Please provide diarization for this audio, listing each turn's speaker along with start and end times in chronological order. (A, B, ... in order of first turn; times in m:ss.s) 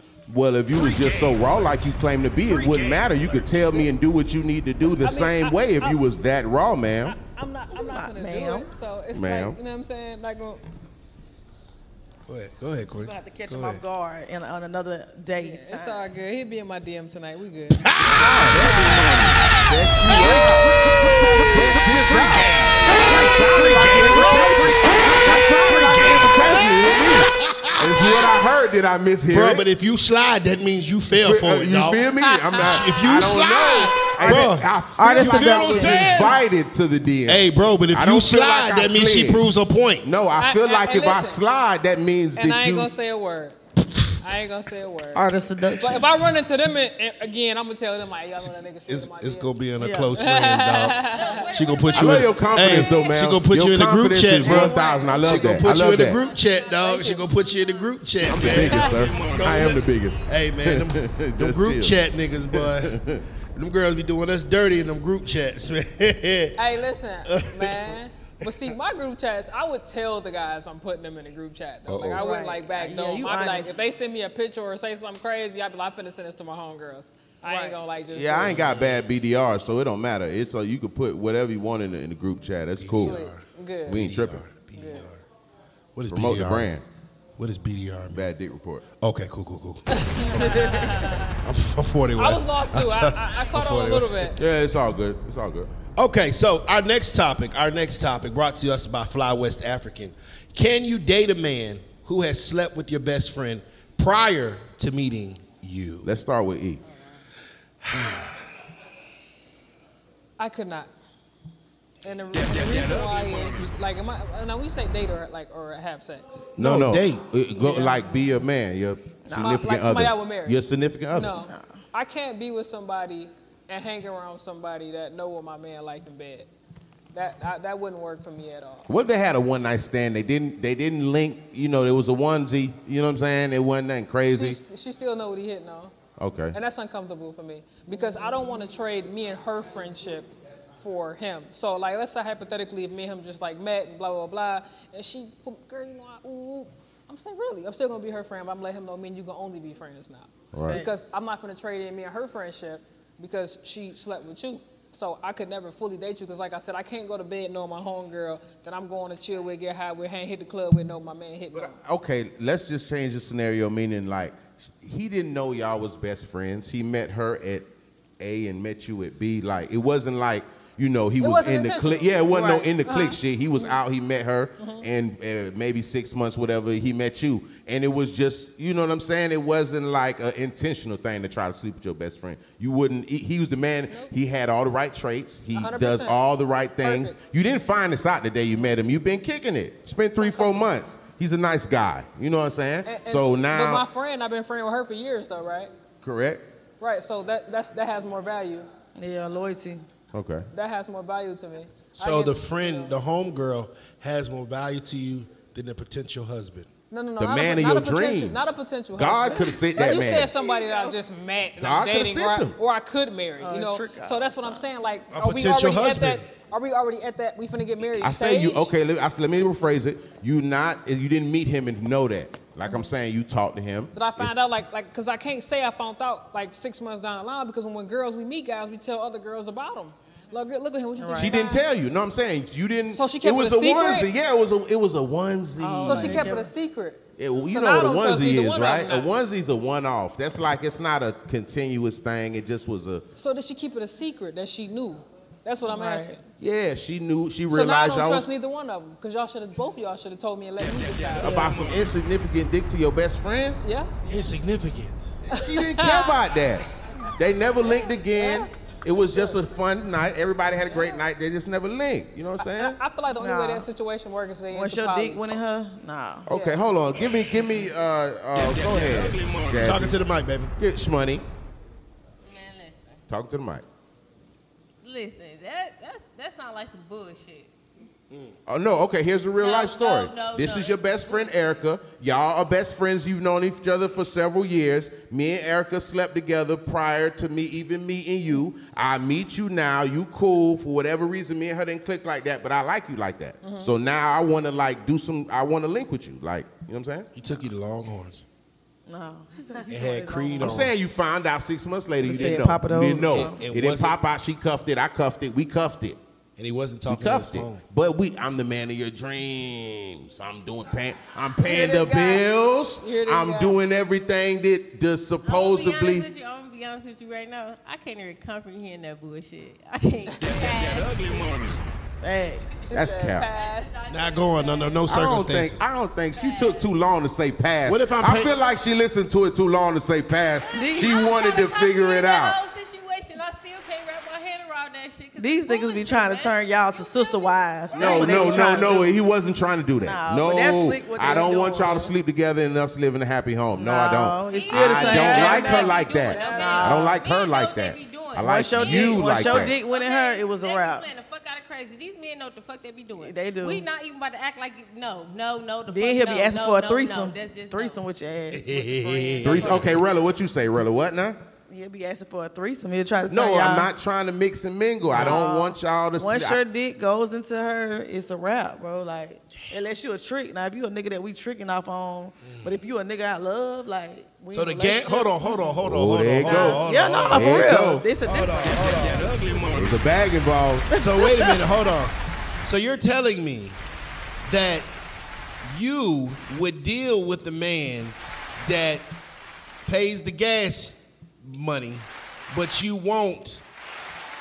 0:00.3-0:07.2 A
0:00.7-0:03.9 B
0:05.0-0:06.0 C
0:07.0-0:10.6 C
0:07.7-0:08.7 D
0:09.1-0:09.6 A
0:12.3-0:13.8 B
0:13.0-0:16.1 D
0:15.4-0:18.0 C
0:17.7-0:18.6 B
0:18.1-0:18.6 A
0:18.3-0:19.6 E
0:18.7-0:19.0 C
0:19.7-0:20.7 A
0:20.0-0:28.4 B
0:21.3-0:21.6 E
0:21.4-0:29.6 A
0:23.5-0:24.5 E
0:29.3-0:36.4 B
0:31.2-0:39.4 A
0:32.2-0:32.9 C
0:34.3-0:36.3 D
0:37.3-0:40.1 B
0:40.0-0:42.9 A
0:40.4-0:41.4 C
0:42.4-0:43.6 C
0:44.2-0:45.3 C
0:45.1-0:46.2 D
0:45.8-0:49.5 C
0:48.9-0:51.0 B
0:49.7-0:50.2 D
0:50.2-0:51.6 C
0:51.0-0:53.3 F
0:51.5-1:03.0 B
0:51.9-0:56.2 A
0:54.4-0:55.2 D
0:54.7-0:58.0 F
0:56.8-0:57.2 C
0:58.3-0:59.8 E
0:58.3-1:02.0 A
0:58.6-0:59.0 C
0:58.8-1:00.4 F
1:02.5-1:03.2 A
1:03.6-1:06.7 B
1:06.6-1:18.7 C
1:07.2-1:08.5 B
1:11.9-1:12.2 B
1:12.1-1:13.8 D
1:17.4-1:17.8 D
1:18.1-1:23.2 A
1:22.8-1:25.2 B
1:23.0-1:24.0 C
1:23.9-1:24.4 A
1:24.7-1:25.1 C
1:26.0-1:26.7 B
1:26.1-1:26.8 A
1:27.4-1:28.3 B
1:28.1-1:28.8 A
1:29.0-1:34.3 B
1:29.9-1:31.3 C
1:32.2-1:34.4 C
1:34.4-1:35.7 A
1:36.0-1:46.1 B
1:46.0-1:46.8 A
1:47.8-1:48.4 B
1:50.4-1:50.9 C
1:52.0-1:56.5 C
1:52.3-1:53.8 E
1:56.6-1:57.2 B
1:56.6-2:01.4 A
1:57.6-1:58.1 D
1:59.2-1:59.7 D
1:59.4-2:00.6 C
2:01.1-2:06.5 C
2:01.4-2:01.8 D
2:07.1-2:08.9 C
2:08.9-2:14.6 A
2:14.2-2:16.0 C
2:16.2-2:16.6 A
2:16.5-2:41.8 C
2:30.5-2:30.9 A
2:30.6-2:30.9 D
2:41.6-3:13.8 A
2:51.2-2:52.2 C
2:52.3-2:52.7 D
2:52.8-2:53.8 C
2:54.6-2:54.9 C
3:05.5-3:06.2 C
3:06.8-3:07.2 C
3:10.2-3:10.7 C
3:12.8-3:15.7 C
3:16.0-3:16.5 A
3:16.8-3:18.7 C
3:19.0-3:19.8 D
3:20.1-3:20.5 A
3:20.5-3:22.9 C
3:22.0-3:26.7 B
3:26.9-3:38.7 C
3:27.2-3:30.3 A
3:29.3-3:31.0 D
3:31.6-3:32.6 A
3:33.4-3:34.7 D
3:35.1-3:36.3 B
3:38.0-3:44.3 A
3:43.9-3:51.7 C
3:51.0-3:51.4 D
3:51.2-3:56.4 A
3:52.9-3:54.1 C
3:55.6-3:56.5 D
3:55.8-3:59.1 C
3:57.2-4:03.1 A
4:03.2-4:06.2 C
4:05.6-4:06.2 D
4:06.4-4:08.3 A
4:07.5-4:11.4 C
4:10.6-4:12.0 E
4:11.2-4:13.6 A
4:11.2-4:11.6 D
4:13.6-4:13.9 C
4:14.1-4:15.2 B
4:15.3-4:22.8 A
4:15.4-4:16.2 C
4:18.1-4:18.5 C
4:22.4-4:25.3 C
4:23.1-4:23.7 D
4:24.5-4:26.3 D
4:26.3-4:30.0 A
4:26.3-4:26.6 C
4:28.3-4:29.8 E
4:29.6-4:30.5 B
4:30.6-4:31.2 A
4:32.2-4:33.0 F
4:33.1-4:33.6 A
4:34.8-4:37.5 F
4:38.5-4:57.1 A
4:39.4-4:41.6 F
4:53.4-4:53.7 C
4:57.2-4:58.2 B
4:58.9-5:00.6 D
4:59.7-5:00.7 B
5:00.4-5:06.0 A
5:02.0-5:03.5 D
5:03.1-5:04.0 B
5:06.4-5:07.6 B
5:06.9-5:16.1 A
5:11.4-5:12.3 C
5:12.8-5:13.6 C
5:15.2-5:21.3 F
5:20.2-5:21.7 E
5:22.0-5:22.6 D
5:22.7-5:23.8 C
5:22.7-5:23.3 A
5:23.2-5:24.9 F
5:23.9-5:25.7 B
5:24.9-5:32.4 A
5:26.2-5:26.7 F
5:27.6-5:28.4 B
5:30.5-5:38.8 F
5:30.5-5:31.0 D
5:35.2-5:38.9 D
5:37.7-5:49.5 A
5:39.8-5:41.9 D
5:43.5-5:45.7 D
5:44.3-5:57.8 F
5:44.9-5:46.8 C
5:46.3-5:47.0 D
5:48.2-5:50.9 D
5:53.0-5:53.6 D
5:55.7-5:59.7 D
5:58.3-5:59.8 B
5:59.2-6:01.2 A
6:01.5-6:03.7 D
6:03.1-6:06.4 A
6:04.9-6:05.2 B
6:04.9-6:15.6 D
6:12.2-6:12.5 B
6:14.3-6:17.5 B
6:15.6-6:17.9 A
6:16.2-6:18.6 D
6:18.0-6:19.2 B
6:18.5-6:19.9 E
6:19.5-6:20.7 A
6:20.7-6:21.5 D
6:20.7-6:23.6 B
6:24.2-6:24.7 B
6:25.4-6:28.9 B
6:29.7-6:33.4 B